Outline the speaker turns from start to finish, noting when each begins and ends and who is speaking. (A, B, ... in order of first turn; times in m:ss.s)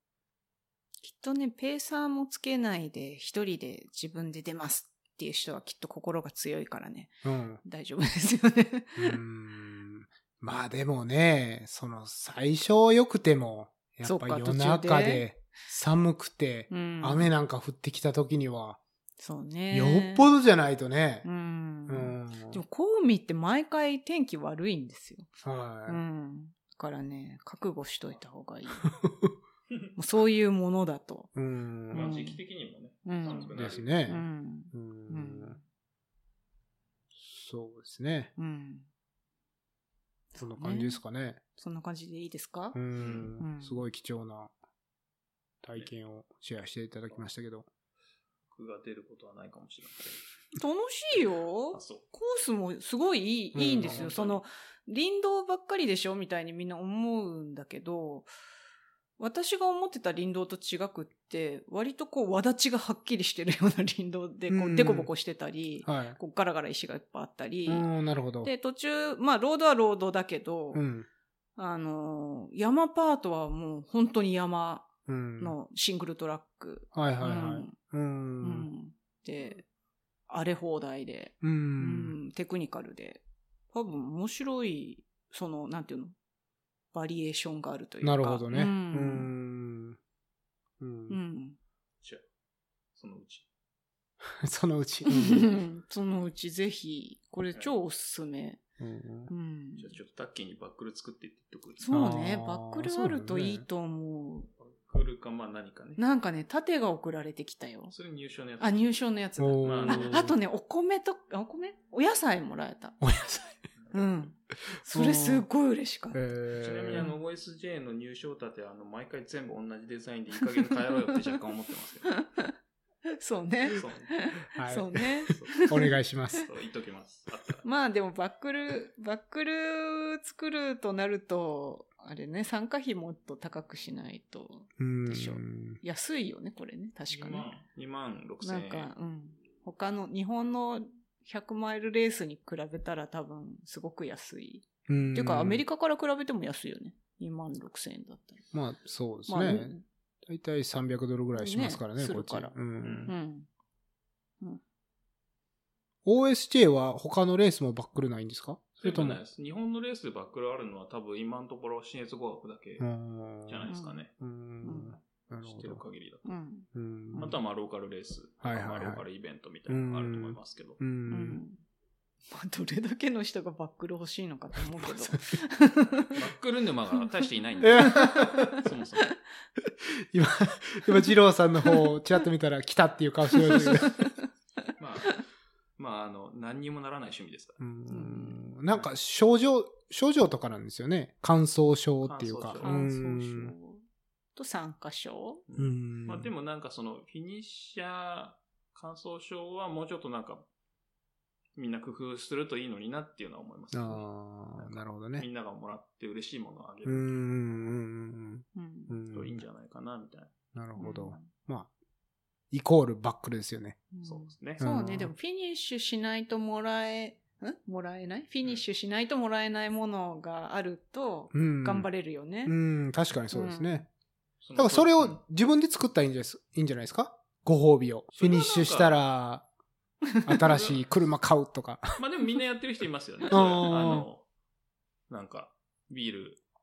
0:01.0-0:09.2 A
0:07.2-0:07.6 B
0:09.0-0:18.8 B
0:14.0-0:15.2 A
0:16.7-0:17.3 A
0:19.2-0:20.3 A
0:19.7-0:21.3 B
0:21.2-0:25.3 A
0:21.9-0:22.6 B
0:25.4-0:26.0 B
0:25.9-0:29.0 A
0:28.8-0:29.3 B
0:30.0-0:31.3 A
0:31.4-0:32.1 B
0:31.9-0:32.4 A
0:31.9-0:33.9 C
0:33.0-0:35.6 A
0:33.5-0:35.6 B
0:37.2-0:38.3 B
0:38.4-0:38.9 A
0:40.3-0:41.0 A
0:40.4-0:41.4 B
0:41.6-0:42.8 A
0:42.7-0:44.5 B
0:43.0-0:43.3 C
0:43.4-0:43.8 A
0:45.6-0:47.7 B
0:48.5-0:50.2 C
0:50.6-0:58.3 A
0:51.7-0:52.0 C
0:53.5-0:54.1 B
0:53.8-0:54.4 C
0:59.2-1:07.9 A
1:04.5-1:05.1 B
1:05.8-1:06.2 B
1:07.7-1:08.5 B
1:08.4-1:10.8 A
1:10.7-1:11.1 B
1:11.6-1:17.7 A
1:15.1-1:15.5 B
1:16.9-1:18.7 B
1:18.4-1:19.6 A
1:20.3-1:23.2 A
1:21.4-1:22.2 B
1:23.7-1:26.1 A
1:26.9-1:29.3 A
1:28.0-1:30.0 B
1:30.8-1:31.2 B
1:31.1-1:31.6 A
1:32.9-1:33.5 C
1:34.4-1:35.6 B
1:35.1-1:38.6 A
1:38.8-1:39.3 B
1:39.3-1:40.0 A
1:39.8-1:41.9 C
1:41.8-1:44.5 A
1:41.9-1:43.6 B
1:44.6-1:46.0 C
1:46.0-1:47.9 A
1:47.9-1:48.9 C
1:48.6-1:53.0 A
1:49.4-1:50.3 B
1:49.6-1:50.3 C
1:53.0-1:53.5 B
1:53.7-1:54.3 C
1:53.9-1:56.2 A
1:54.9-1:55.4 B
1:56.1-1:57.1 B
1:56.5-2:02.2 C
2:00.5-2:01.4 A
2:02.0-2:02.5 A
2:03.2-2:05.9 A
2:03.7-2:04.1 C
2:04.5-2:06.5 B
2:05.3-2:05.6 C
2:06.4-2:07.6 C
2:07.6-2:17.5 A
2:14.8-2:15.8 B
2:17.1-2:18.9 C
2:18.4-2:28.4 A
2:24.9-2:25.6 B
2:28.5-2:29.7 B
2:29.3-2:29.8 A
2:30.2-2:33.1 B
2:31.3-2:32.5 A
2:32.8-2:33.1 C
2:33.1-2:33.5 A
2:36.0-2:39.2 B
2:38.8-2:42.8 C
2:42.8-2:43.7 B
2:43.5-2:44.1 C
2:43.7-2:44.0 A
2:44.2-2:45.8 B
2:44.6-2:45.0 A
2:45.4-2:46.2 C
2:46.2-2:47.3 A
2:46.7-2:47.3 B
2:47.2-2:50.8 C
2:48.4-2:49.0 B
2:49.7-2:51.4 B
2:51.1-2:51.6 A
2:52.3-2:56.2 A
2:54.8-2:55.4 B
2:56.1-2:59.1 C
2:57.6-2:58.6 B
2:57.7-2:59.1 A
3:00.1-3:04.0 B
3:01.6-3:01.9 A
3:03.4-3:04.2 A
3:04.8-3:05.2 C
3:05.8-3:07.6 C
3:07.6-3:13.5 B
3:07.9-3:08.4 A
3:12.0-3:12.8 C
3:12.6-3:13.8 A
3:14.4-3:15.4 A
3:15.5-3:20.5 C
3:15.6-3:16.3 B
3:21.5-3:24.0 C
3:23.7-3:25.2 B
3:24.6-3:27.2 C
3:26.8-3:29.4 B
3:28.5-3:28.9 A
3:29.1-3:30.3 C
3:30.5-3:31.7 B
3:30.8-3:31.3 A
3:32.5-3:33.8 B
3:33.9-3:42.5 A
3:34.0-3:34.6 C
3:34.6-3:35.1 B
3:41.3-3:41.9 B
3:42.4-3:43.9 B
3:43.3-3:43.8 A
3:44.4-3:45.2 C
3:44.6-3:49.5 B
3:48.1-3:49.0 C
3:50.2-3:52.0 B
3:50.4-3:50.8 C
3:52.0-3:54.2 C
3:53.3-3:54.0 B
3:55.1-3:56.4 C